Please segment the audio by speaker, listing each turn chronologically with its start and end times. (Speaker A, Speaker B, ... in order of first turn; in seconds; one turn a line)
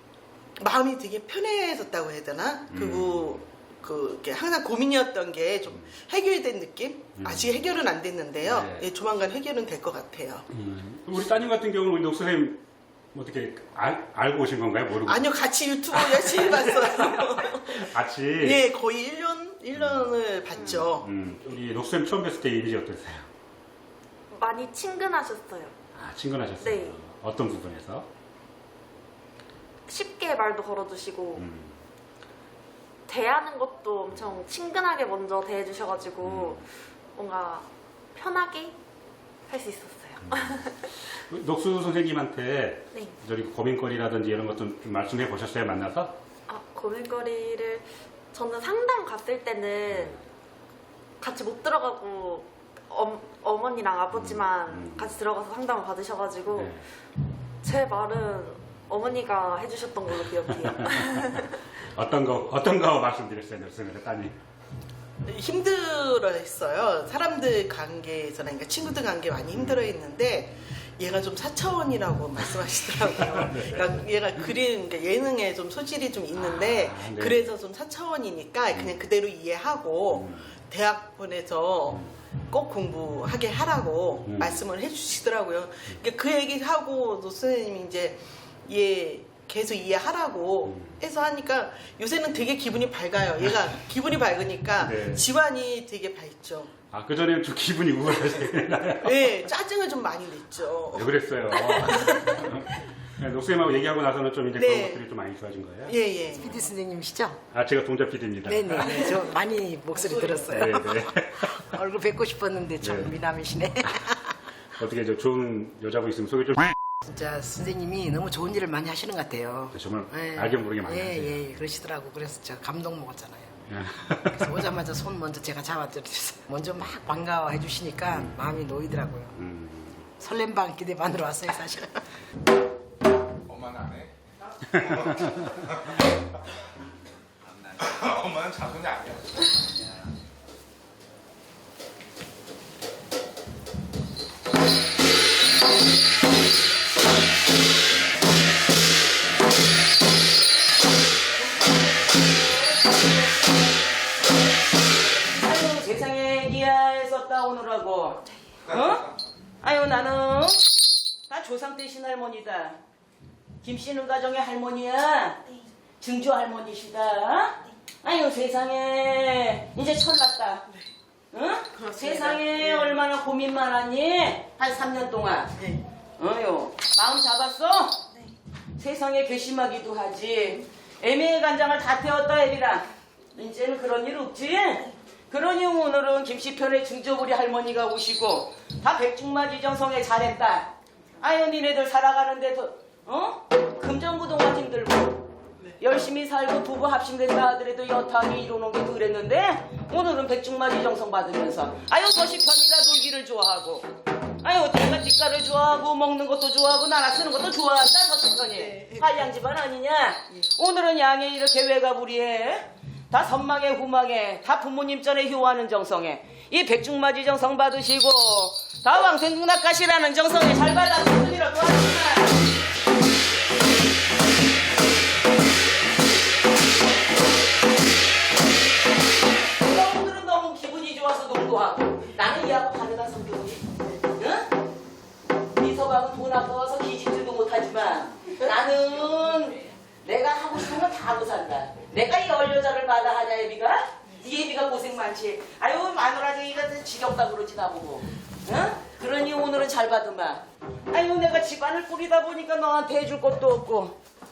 Speaker A: 0.6-10.5
Speaker B: 2.7-3.4
Speaker B: 7.2-7.6
Speaker B: 8.4-8.9
Speaker B: 10.5-12.6
Speaker B: 13.1-15.3
Speaker A: 15.1-21.1
Speaker B: 16.1-18.6
Speaker B: 19.8-23.3
Speaker C: 24.3-25.7
Speaker B: 26.0-28.1
Speaker C: 26.6-27.0
Speaker C: 29.9-31.5
Speaker B: 31.4-31.8
Speaker C: 33.1-38.8
Speaker B: 36.2-36.6
Speaker C: 39.5-40.9
Speaker B: 40.2-40.6
Speaker B: 41.3-46.2
Speaker C: 46.5-50.2
Speaker B: 49.9-50.1
Speaker C: 51.2-56.8
Speaker B: 54.1-55.1
Speaker B: 56.5-56.8
Speaker C: 57.6-61.6
Speaker B: 60.5-64.4
Speaker A: 65.2-96.7
Speaker B: 69.5-70.0
Speaker B: 73.0-74.5
Speaker B: 76.4-77.5
Speaker B: 78.7-79.0
Speaker B: 80.1-80.5
Speaker B: 84.2-84.6
Speaker B: 90.7-91.0
Speaker B: 94.8-95.3
Speaker B: 96.9-99.4
Speaker A: 99.0-101.2
Speaker B: 100.9-106.0
Speaker A: 104.5-105.0
Speaker A: 105.9-106.6
Speaker D: 106.3-107.4
Speaker B: 107.5-109.1
Speaker D: 108.4-114.2
Speaker B: 110.5-111.6
Speaker B: 112.8-113.1
Speaker B: 114.8-116.8
Speaker D: 117.0-123.6
Speaker B: 119.7-121.4
Speaker B: 123.7-124.6
Speaker D: 124.3-129.4
Speaker B: 129.3-130.1
Speaker D: 130.2-132.0
Speaker E: 133.5-134.1
Speaker B: 134.7-135.6
Speaker E: 134.8-136.0
Speaker E: 137.8-139.5
Speaker F: 151.4-152.9
Speaker F: 155.3-159.1
Speaker F: 159.6-160.6
Speaker F: 161.3-162.8
Speaker F: 163.6-165.4
Speaker F: 166.0-170.7
Speaker F: 171.3-175.5
Speaker A: 171.7-173.0
Speaker A: 175.6-175.8
Speaker F: 176.2-178.0
Speaker F: 178.8-195.3
Speaker F: 195.8-203.9
Speaker F: 204.4-222.4
Speaker A: 208.6-209.2
Speaker F: 229.6-233.6
Speaker F: 234.2-234.5
Speaker F: 235.6-254.0